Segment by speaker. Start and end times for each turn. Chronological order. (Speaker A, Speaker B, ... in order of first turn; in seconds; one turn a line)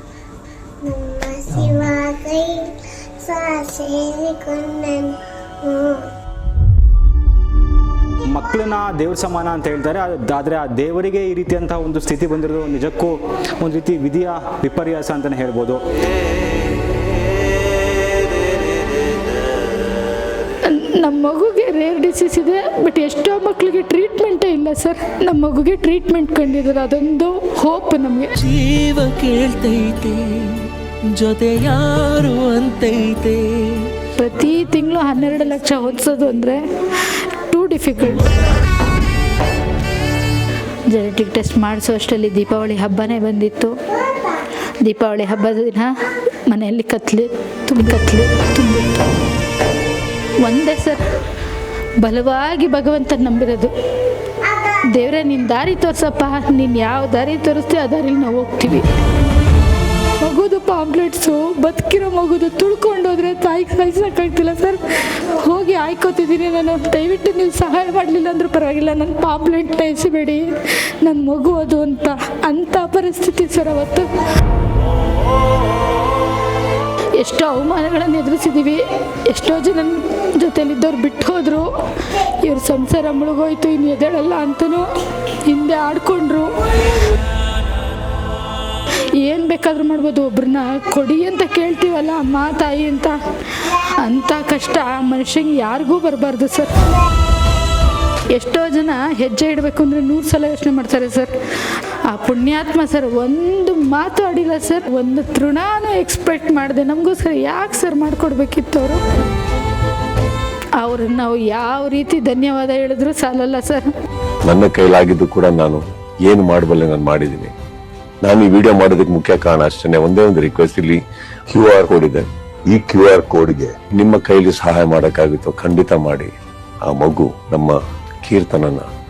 Speaker A: 0.8-6.0
Speaker B: 8.3-15.8
Speaker C: 20.7-28.3
Speaker D: 28.4-33.9
Speaker C: 34.2-36.6
Speaker C: 37.3-38.4
Speaker C: 40.9-43.8
Speaker C: 44.8-45.9
Speaker C: 46.5-49.0
Speaker C: 50.4-51.0
Speaker C: 52.0-53.7
Speaker A: 54.4-54.8
Speaker C: 54.9-58.9
Speaker C: 60.2-74.1
Speaker C: 77.2-84.8
Speaker C: 85.4-86.5
Speaker C: 88.9-96.8
Speaker C: 98.3-101.3
Speaker C: 102.1-109.0
Speaker C: 110.8-113.9
Speaker E: 114.5-117.5
Speaker E: 118.2-121.0
Speaker E: 121.5-126.3
Speaker E: 126.9-128.9